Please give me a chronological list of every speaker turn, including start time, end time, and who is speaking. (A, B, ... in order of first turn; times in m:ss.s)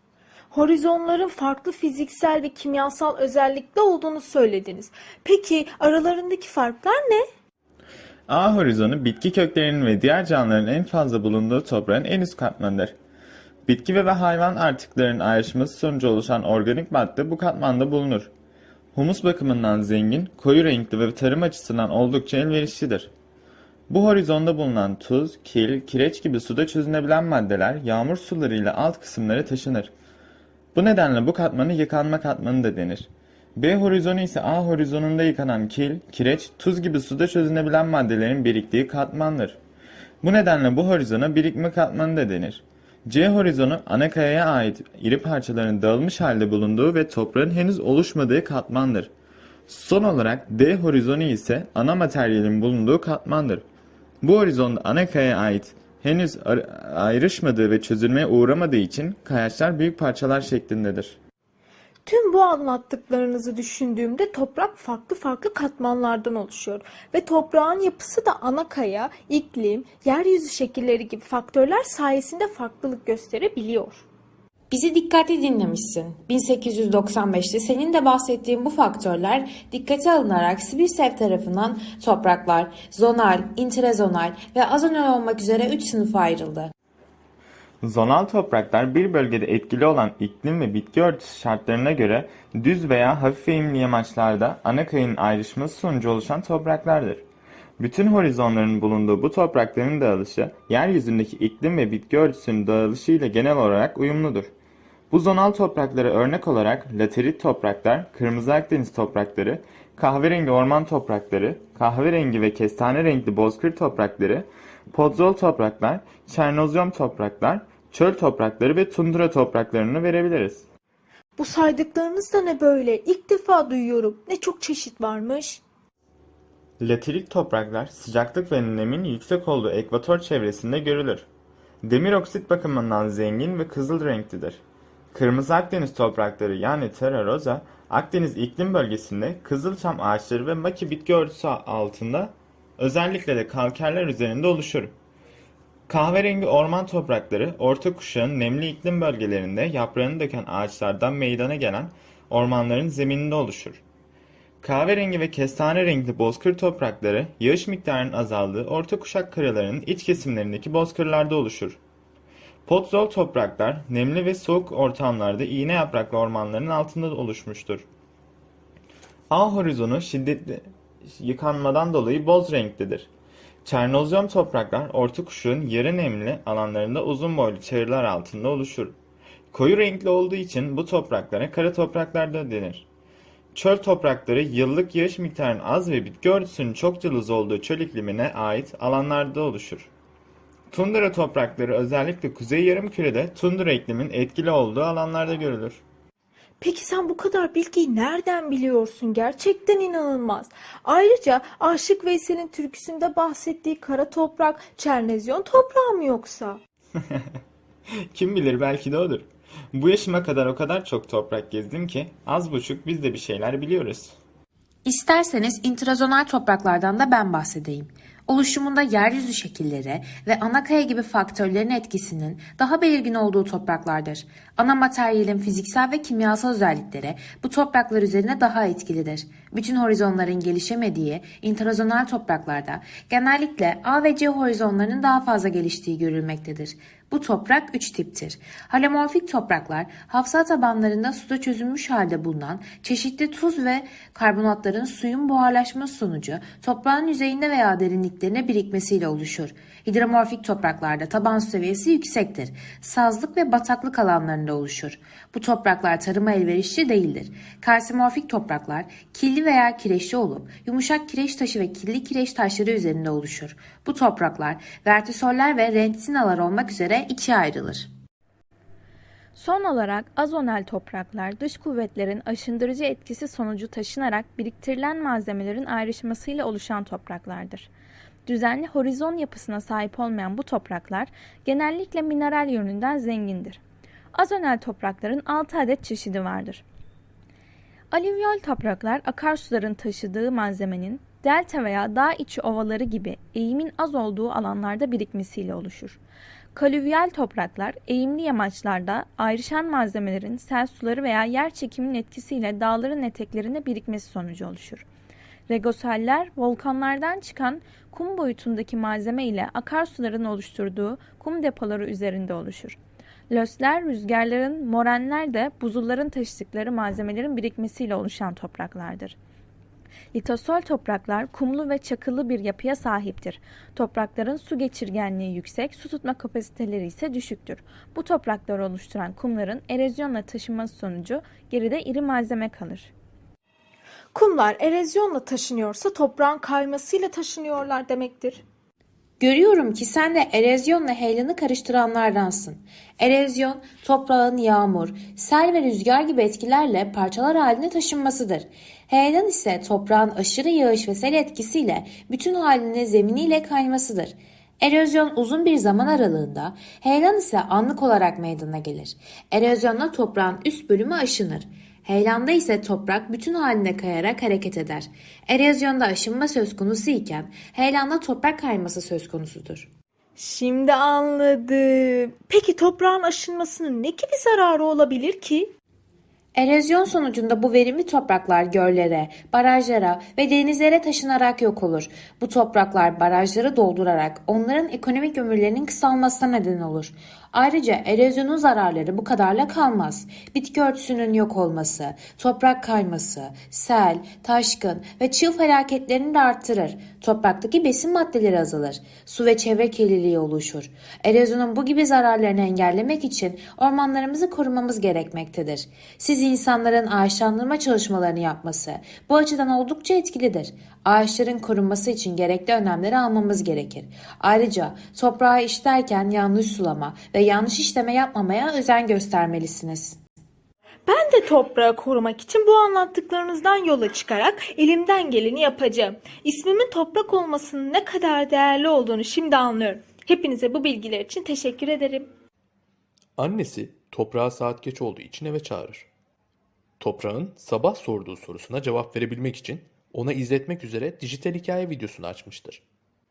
0:00.5-0:07.2 A
0:08.3-0:13.0 B
0:13.7-0:18.3 B
0:19.0-0:23.1 B
0:23.9-0:29.9 B
0:30.7-0:39.6 B
0:40.2-0:49.1 B
0:49.7-0:53.6 B
0:54.2-1:01.2 B
1:02.1-1:14.0 A
1:14.7-1:26.7 C
1:27.8-1:37.2 B
1:37.8-1:44.5 B
1:45.1-2:00.6 B
2:01.4-2:05.6 A
2:06.8-2:11.3 B
2:11.8-2:14.6 B
2:15.1-2:24.9 B
2:25.9-2:33.8 B
2:34.6-2:41.8 B
2:42.7-2:47.9 B
2:49.3-2:53.1 B
2:53.6-2:59.0 B
2:59.5-3:02.9 B
3:03.5-3:09.9 B
3:10.7-3:15.8 B
3:16.6-3:26.6 A
3:28.1-3:34.2 B
3:34.8-4:27.9 C
4:29.4-4:37.7 D
4:38.3-4:43.6 D
4:44.1-4:46.6 D
4:47.9-4:56.0 D
4:56.5-5:04.8 D
5:05.5-5:12.8 D
5:13.3-5:19.2 D
5:20.1-5:32.9 D
5:34.1-5:38.4 A
5:39.2-6:09.7 C
6:10.2-6:15.5 A
6:16.4-7:00.0 C
7:00.9-7:12.1 A
7:13.2-7:15.9 E
7:16.8-7:22.6 E